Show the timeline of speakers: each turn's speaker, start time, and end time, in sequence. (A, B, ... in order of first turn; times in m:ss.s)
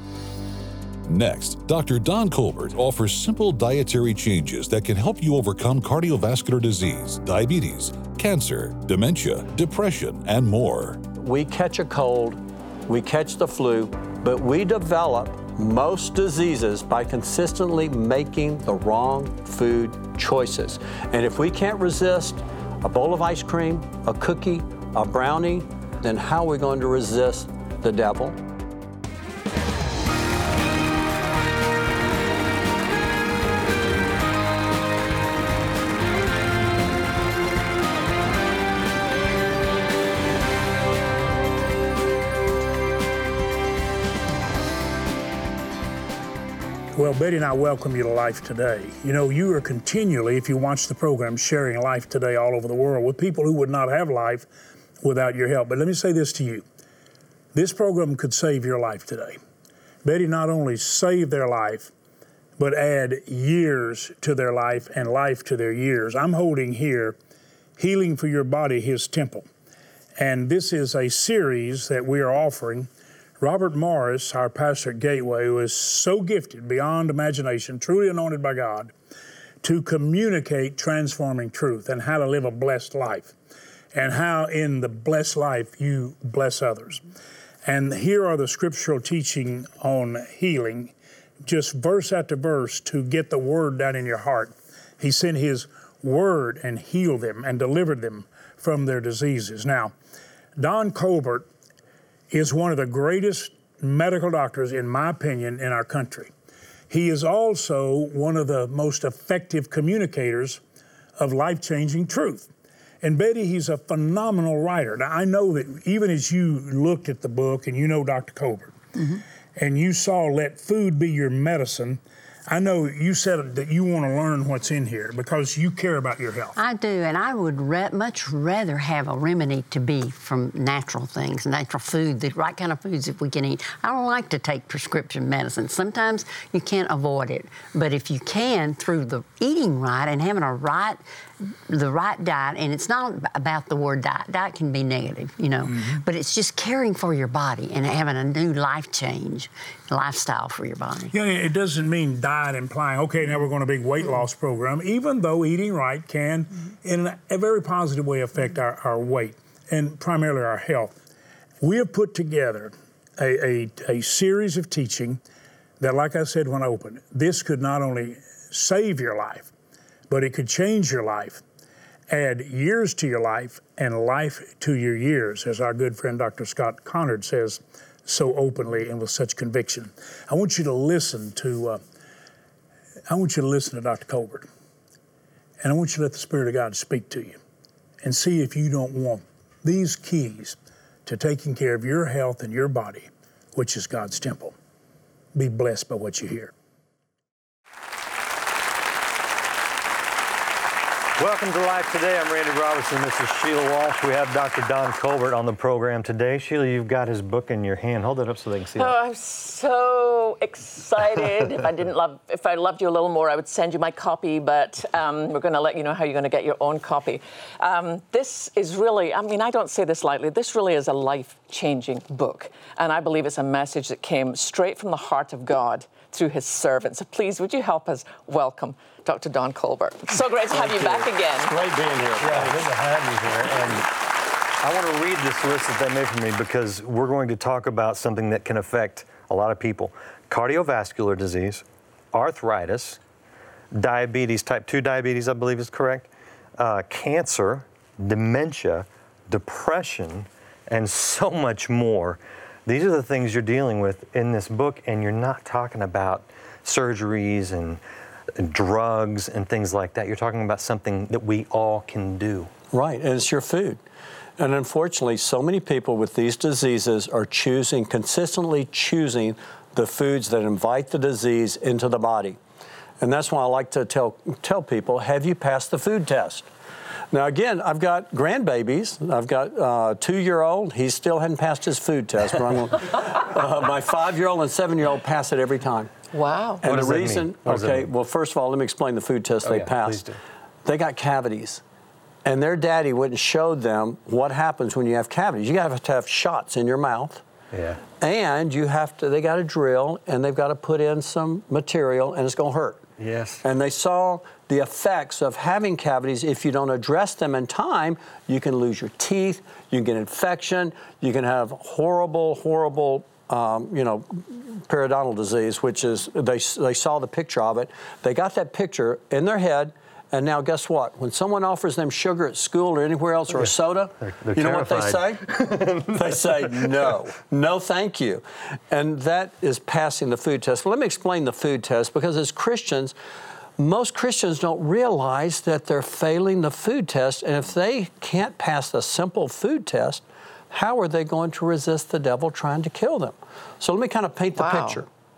0:01.1-0:11.0 A
0:11.2-0:28.4 B
0:46.9-0:54.5 C
0:55.0-0:56.6 C
0:57.5-0:59.4 C
1:00.0-1:01.9 C
1:02.6-1:07.2 C
1:07.8-1:09.5 C
1:10.2-1:18.9 C
1:19.6-1:23.3 C
1:23.9-1:27.0 C
1:27.6-1:39.9 C
1:40.6-1:41.5 C
1:42.3-1:46.3 C
1:46.9-1:50.6 C
1:51.2-1:52.5 C
1:53.0-1:58.8 C
1:59.6-2:06.6 C
2:06.6-2:31.1 D
2:25.7-2:26.0 C
2:31.1-2:40.9 C
2:41.6-2:45.2 C
2:45.8-2:49.5 C
2:50.1-2:51.4 C
2:52.1-3:01.8 C
3:03.1-3:04.5 C
3:05.6-3:07.4 C
3:08.0-3:14.5 C
3:15.4-3:16.5 C
3:21.2-3:28.9 E
3:28.8-3:51.5 F
3:50.6-3:52.6 B
3:52.2-3:53.9 E
3:54.6-4:03.0 E
4:03.7-4:17.8 E
4:18.4-4:22.5 E
4:22.7-4:23.8 B
4:24.4-4:32.4 B
4:33.0-4:36.5 B
4:37.1-4:45.9 B
4:46.1-4:46.6 F
4:46.6-4:50.0 B
4:46.6-4:47.9 E
4:49.4-4:50.2 E
4:50.6-4:51.6 B
4:52.2-4:57.2 B
4:57.5-4:57.8 E
4:58.0-5:02.8 B
5:03.0-5:03.4 E
5:03.4-5:25.3 B
5:23.3-5:26.9 E
5:25.9-5:32.9 B
5:33.6-5:44.9 B
5:44.4-5:44.8 F